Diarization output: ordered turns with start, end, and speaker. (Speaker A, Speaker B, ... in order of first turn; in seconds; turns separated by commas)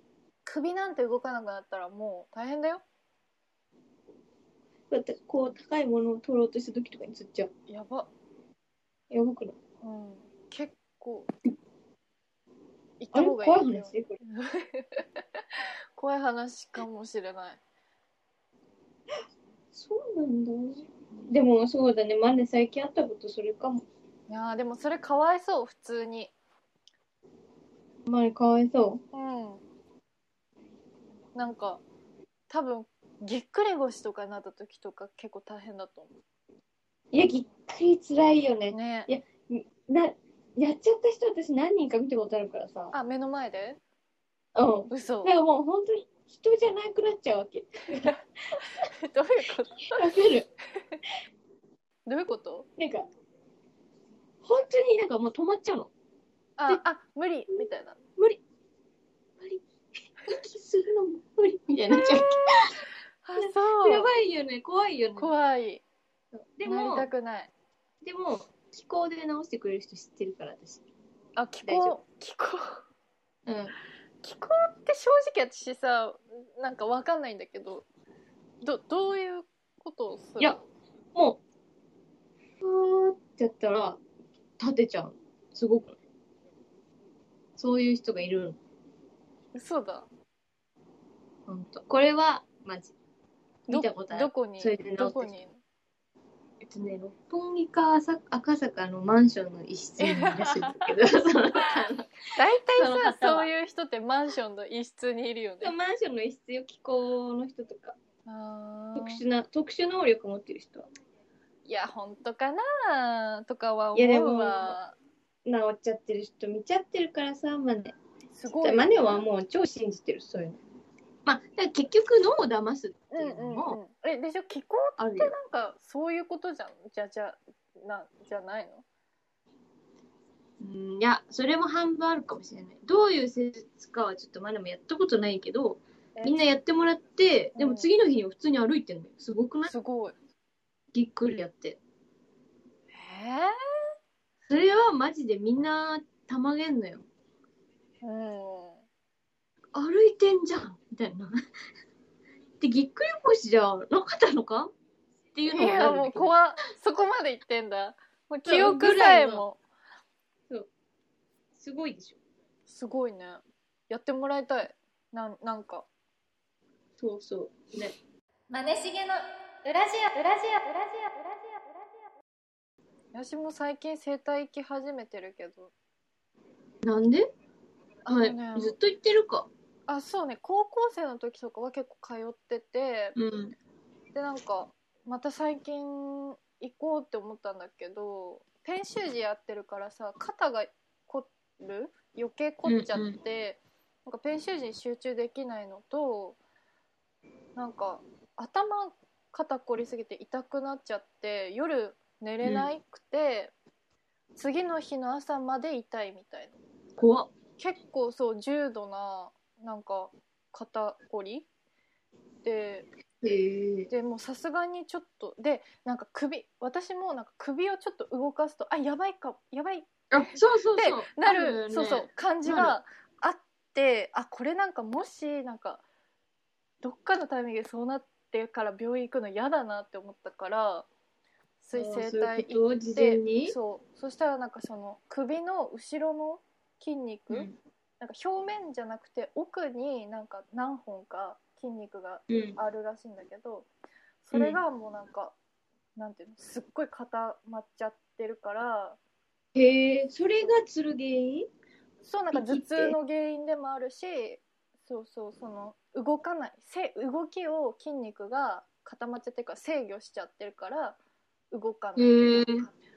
Speaker A: 0.5-2.8, Speaker B: 4.9-7.5, Speaker A: 7.7-8.1, Speaker B: 9.1-9.6, Speaker A: 9.8-11.3, Speaker A: 13.0-15.2, Speaker B: 13.1-14.2, Speaker A: 16.0-17.6, Speaker B: 19.7-23.9, Speaker A: 24.3-26.3, Speaker B: 28.1-29.0, Speaker A: 29.1-29.6, Speaker A: 31.4-31.8, Speaker A: 32.5-36.1, Speaker B: 37.1-42.9, Speaker A: 38.7-39.1, Speaker A: 42.9-43.8, Speaker B: 44.5-48.9, Speaker A: 44.9-45.3, Speaker A: 48.8-50.1, Speaker B: 49.9-50.5, Speaker A: 52.1-52.7, Speaker B: 52.8-53.1, Speaker B: 54.4-55.9, Speaker A: 56.6-58.0, Speaker B: 59.4-59.6, Speaker B: 60.2-62.8, Speaker A: 61.9-64.1, Speaker B: 63.4-65.3, Speaker A: 65.2-65.8, Speaker B: 66.3-67.1, Speaker A: 66.7-67.5, Speaker B: 68.0-70.8, Speaker A: 71.4-72.8, Speaker B: 71.6-72.0, Speaker B: 73.5-73.7, Speaker A: 74.2-77.8, Speaker A: 78.6-80.6, Speaker B: 81.1-81.4, Speaker B: 82.6-84.0, Speaker B: 84.6-86.0, Speaker B: 87.6-88.6, Speaker A: 89.5-90.1, Speaker B: 91.5-92.9, Speaker B: 93.7-95.3, Speaker A: 93.7-95.6, Speaker B: 96.6-102.1, Speaker A: 100.0-100.9, Speaker A: 102.4-105.7, Speaker B: 102.7-103.5, Speaker B: 105.6-108.0, Speaker A: 108.3-109.2, Speaker B: 109.0-110.9, Speaker A: 111.7-115.0, Speaker B: 114.0-114.8, Speaker B: 115.5-118.0, Speaker A: 118.3-119.3, Speaker B: 118.5-120.6, Speaker B: 121.2-123.8, Speaker A: 123.1-128.8, Speaker B: 125.0-125.3, Speaker B: 130.6-139.7, Speaker A: 137.6-137.9, Speaker A: 139.7-140.1, Speaker B: 140.9-141.8, Speaker A: 142.9-143.5, Speaker B: 144.5-147.1, Speaker A: 148.0-148.8, Speaker B: 149.7-151.3, Speaker B: 152.6-154.7, Speaker B: 155.3-156.3, Speaker A: 155.5-159.6, Speaker B: 158.4-159.5, Speaker B: 161.6-162.2, Speaker A: 162.7-165.9, Speaker B: 167.0-167.9, Speaker A: 168.5-171.7, Speaker A: 173.1-175.7, Speaker B: 176.8-177.3, Speaker A: 178.1-178.8, Speaker B: 178.1-179.5, Speaker A: 179.9-183.2, Speaker B: 183.2-183.5, Speaker A: 184.1-196.4, Speaker B: 192.7-193.2, Speaker A: 197.6-203.5, Speaker B: 202.4-202.7, Speaker A: 204.4-206.6, Speaker B: 207.0-207.3, Speaker A: 207.6-211.5, Speaker A: 212.4-212.9, Speaker B: 213.2-213.9, Speaker A: 213.9-225.8, Speaker B: 220.1-222.8, Speaker A: 226.8-230.9, Speaker A: 231.6-243.7, Speaker B: 231.7-233.6, Speaker B: 237.3-237.6, Speaker B: 242.3-242.6, Speaker A: 244.2-245.4, Speaker B: 244.3-244.6, Speaker A: 246.0-249.0, Speaker B: 249.6-251.5, Speaker A: 252.0-261.0, Speaker B: 252.3-253.0, Speaker A: 261.5-262.7, Speaker B: 262.0-262.7